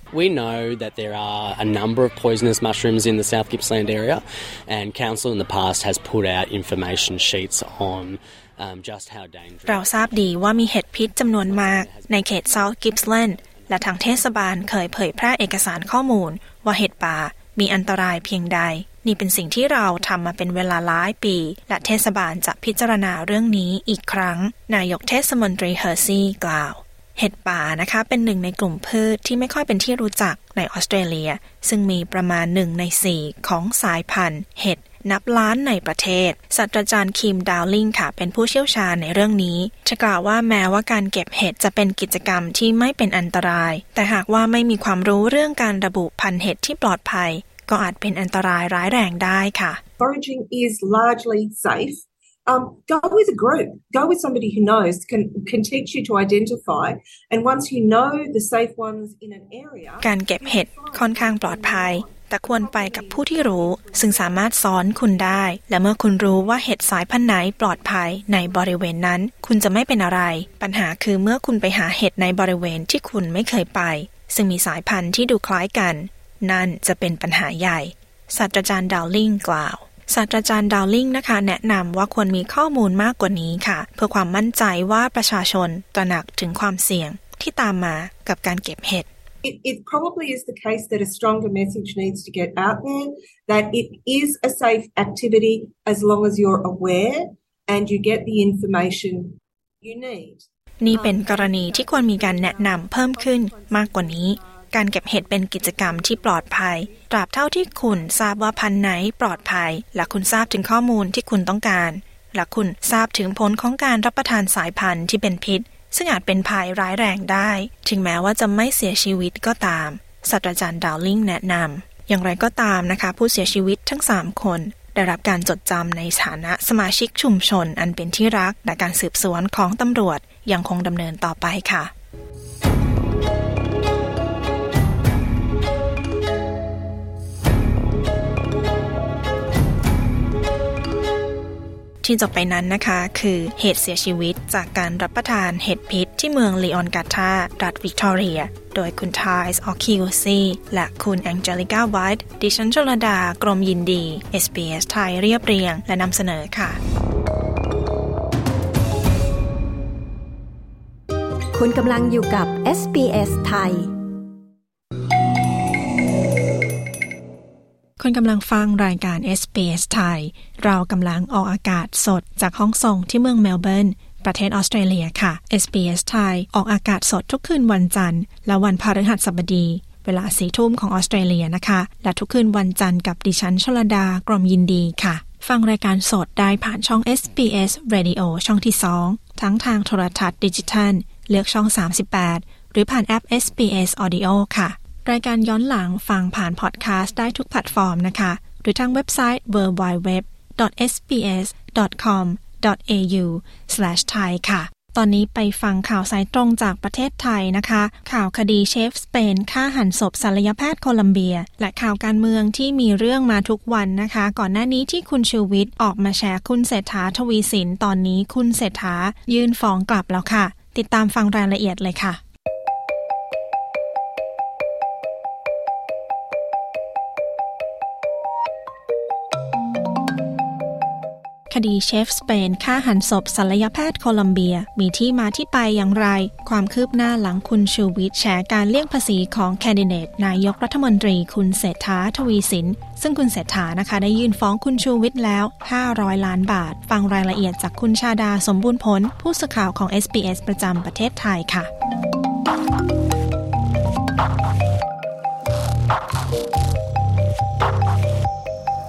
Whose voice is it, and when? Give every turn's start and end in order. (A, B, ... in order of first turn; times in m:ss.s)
0:00.1-0:10.5 A
0:09.7-0:49.8 B
0:11.2-0:12.6 A
0:50.0-1:05.5 C
1:00.0-1:29.1 B
1:29.4-1:47.1 C
1:40.8-2:11.9 B
1:47.8-1:48.4 C
2:22.0-2:36.8 B
2:41.5-2:43.9 D
2:48.0-3:42.2 B
3:51.5-4:11.7 B